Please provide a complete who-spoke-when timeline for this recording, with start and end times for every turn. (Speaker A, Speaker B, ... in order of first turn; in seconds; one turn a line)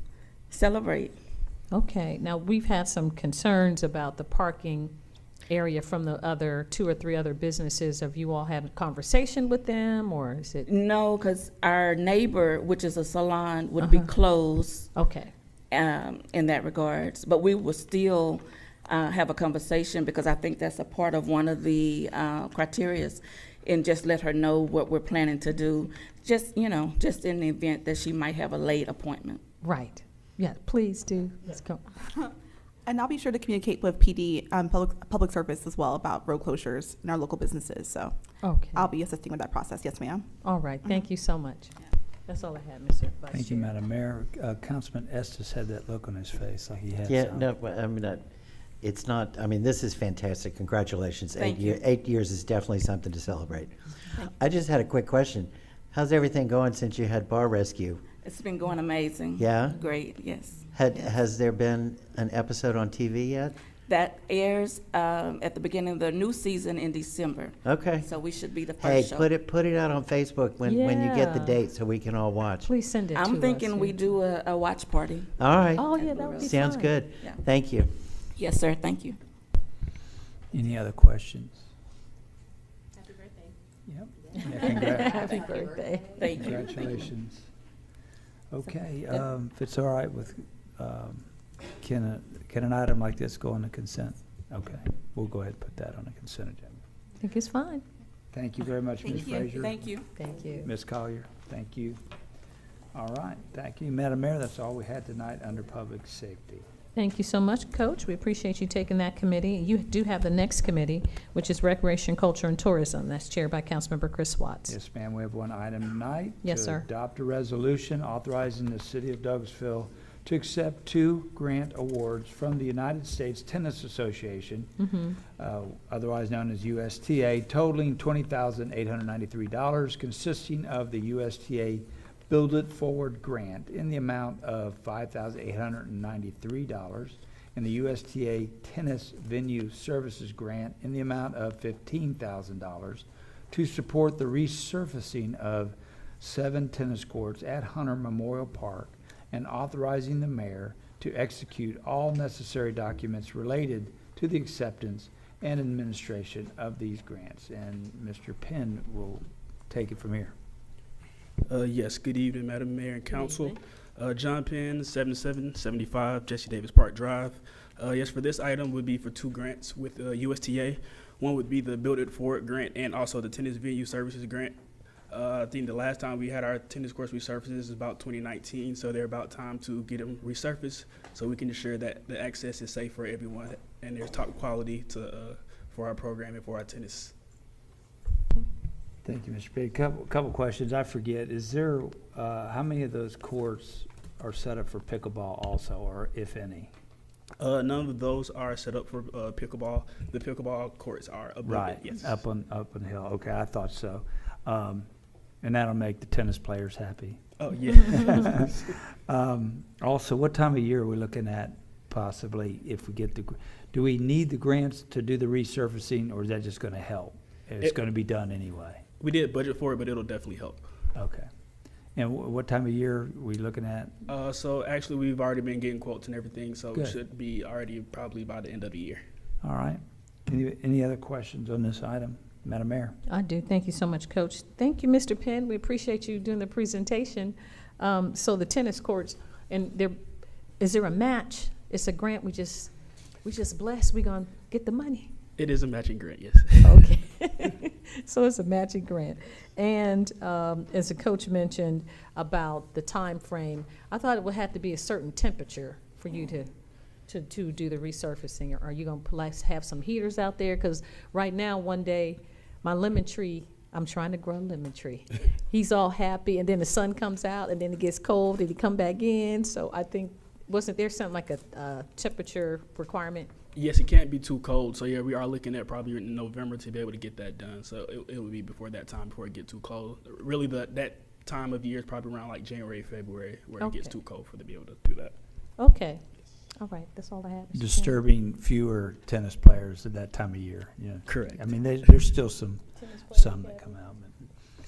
Speaker A: 0.5-1.1
Speaker B: 1.7-4.9
Speaker B: 5.5-10.7
Speaker A: 10.6-14.9
Speaker B: 13.8-14.1
Speaker B: 14.9-15.3
Speaker A: 15.7-29.4
Speaker B: 29.6-32.0
Speaker C: 32.9-38.1
Speaker B: 38.4-38.9
Speaker C: 38.6-40.3
Speaker B: 40.4-41.7
Speaker B: 42.3-43.7
Speaker D: 43.3-47.5
Speaker E: 47.1-48.2
Speaker E: 48.8-58.0
Speaker A: 51.4-51.8
Speaker A: 58.2-60.8
Speaker E: 59.4-59.8
Speaker E: 60.7-63.5
Speaker A: 63.9-69.3
Speaker E: 67.6-68.0
Speaker E: 68.8-72.7
Speaker B: 70.6-71.6
Speaker B: 72.6-74.0
Speaker A: 73.1-76.6
Speaker E: 75.4-75.8
Speaker B: 75.8-77.0
Speaker E: 76.4-77.9
Speaker A: 78.4-79.2
Speaker D: 80.5-81.6
Speaker D: 83.9-85.2
Speaker B: 84.4-86.2
Speaker A: 86.1-87.0
Speaker D: 86.3-87.5
Speaker D: 88.5-91.2
Speaker D: 91.8-96.8
Speaker B: 97.2-97.8
Speaker D: 98.3-99.9
Speaker A: 99.0-100.0
Speaker B: 100.1-100.7
Speaker D: 100.5-102.0
Speaker D: 102.9-106.7
Speaker B: 106.9-114.7
Speaker D: 114.7-124.7
Speaker B: 116.4-116.8
Speaker B: 124.8-125.2
Speaker D: 125.3-160.3
Speaker F: 161.5-174.6
Speaker F: 175.1-187.1
Speaker D: 189.0-196.7
Speaker F: 197.4-202.2
Speaker D: 201.4-204.9
Speaker D: 205.4-207.2
Speaker F: 207.4-208.8
Speaker D: 207.7-218.8
Speaker F: 219.0-220.7
Speaker D: 220.9-221.3
Speaker D: 221.9-223.9
Speaker F: 224.1-229.0
Speaker D: 229.4-232.9
Speaker B: 233.1-239.9
Speaker B: 240.6-242.7
Speaker B: 243.2-245.1
Speaker F: 245.4-246.9
Speaker B: 246.6-256.5
Speaker B: 257.1-273.3
Speaker F: 273.6-285.1
Speaker B: 283.6-284.0
Speaker B: 285.6-286.0
Speaker B: 286.6-288.0
Speaker D: 287.5-294.3
Speaker F: 291.1-291.5
Speaker B: 292.8-293.6